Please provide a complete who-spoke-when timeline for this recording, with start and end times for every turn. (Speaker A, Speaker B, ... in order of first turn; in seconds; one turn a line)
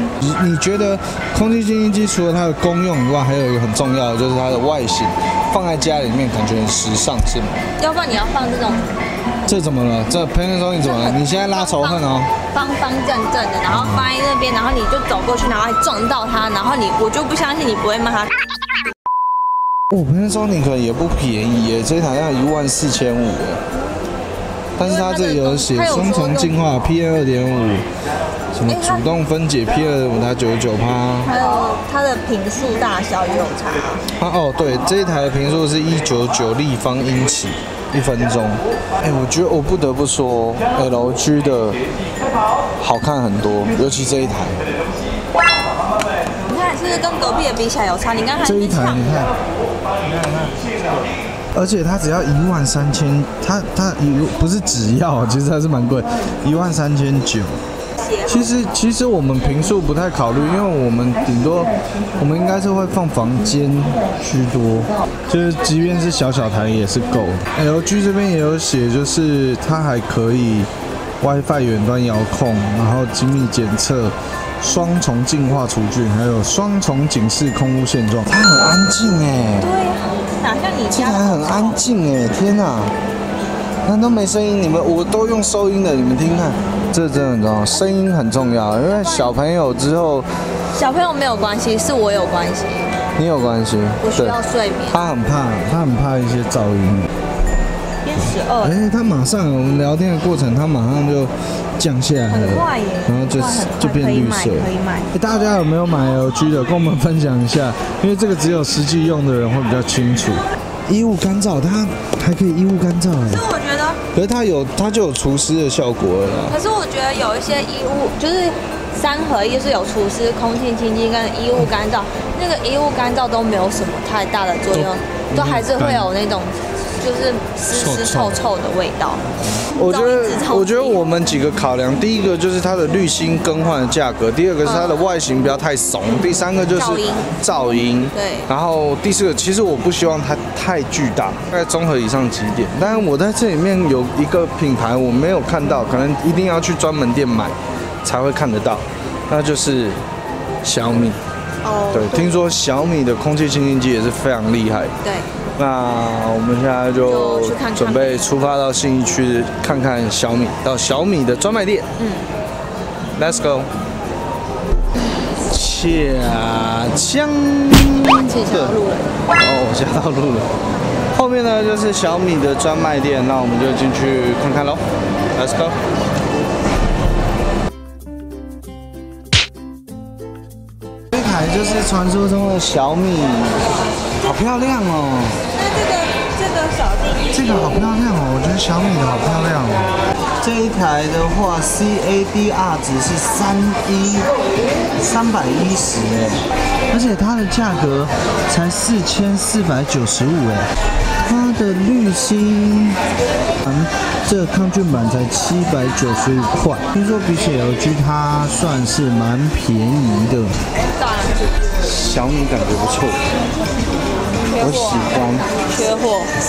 Speaker A: 0.2-7.6
Speaker B: 7.8-8.9
Speaker A: 9.5-12.3
Speaker B: 10.8-18.3
Speaker A: 13.7-14.1
Speaker A: 19.9-23.6
Speaker A: 24.8-27.9
Speaker B: 24.8-26.6
Speaker A: 28.5-31.3
Speaker B: 28.7-29.1
Speaker B: 31.2-34.0
Speaker A: 34.2-41.8
Speaker A: 42.8-44.6
Speaker B: 46.5-49.1
Speaker A: 48.4-49.3
Speaker A: 50.0-50.7
Speaker A: 51.5-57.6
Speaker B: 58.0-58.5
Speaker A: 58.3-70.7
Speaker A: 71.2-79.7
Speaker B: 79.6-81.8
Speaker A: 80.9-82.9
Speaker A: 83.8-90.3
Speaker B: 87.7-88.0
Speaker B: 88.7-89.4
Speaker B: 90.7-93.0
Speaker A: 93.2-94.4
Speaker B: 94.0-95.2
Speaker A: 94.9-97.1
Speaker B: 98.0-98.8
Speaker A: 98.2-113.5
Speaker B: 102.3-105.1
Speaker B: 113.3-114.0
Speaker A: 114.1-116.6
Speaker B: 116.5-129.3
Speaker A: 124.7-126.1
Speaker A: 127.7-128.4
Speaker A: 129.5-150.0
Speaker B: 129.8-131.1
Speaker B: 134.6-135.1
Speaker B: 136.8-137.3
Speaker B: 138.1-138.5
Speaker A: 150.6-151.2
Speaker B: 151.6-152.5
Speaker A: 151.9-154.9
Speaker B: 155.0-155.3
Speaker A: 155.6-161.9
Speaker B: 157.0-158.3
Speaker B: 162.0-162.3
Speaker A: 163.2-163.7
Speaker A: 165.5-168.8
Speaker B: 168.1-169.2
Speaker A: 169.3-170.5
Speaker A: 171.1-174.8
Speaker A: 175.3-175.8
Speaker A: 181.1-183.6
Speaker A: 184.2-185.4
Speaker B: 185.5-187.3
Speaker A: 187.3-194.3
Speaker A: 195.0-200.7
Speaker A: 201.3-203.0
Speaker A: 203.6-210.6
Speaker B: 210.9-211.5
Speaker A: 211.8-213.2
Speaker B: 214.4-216.3
Speaker A: 214.6-215.6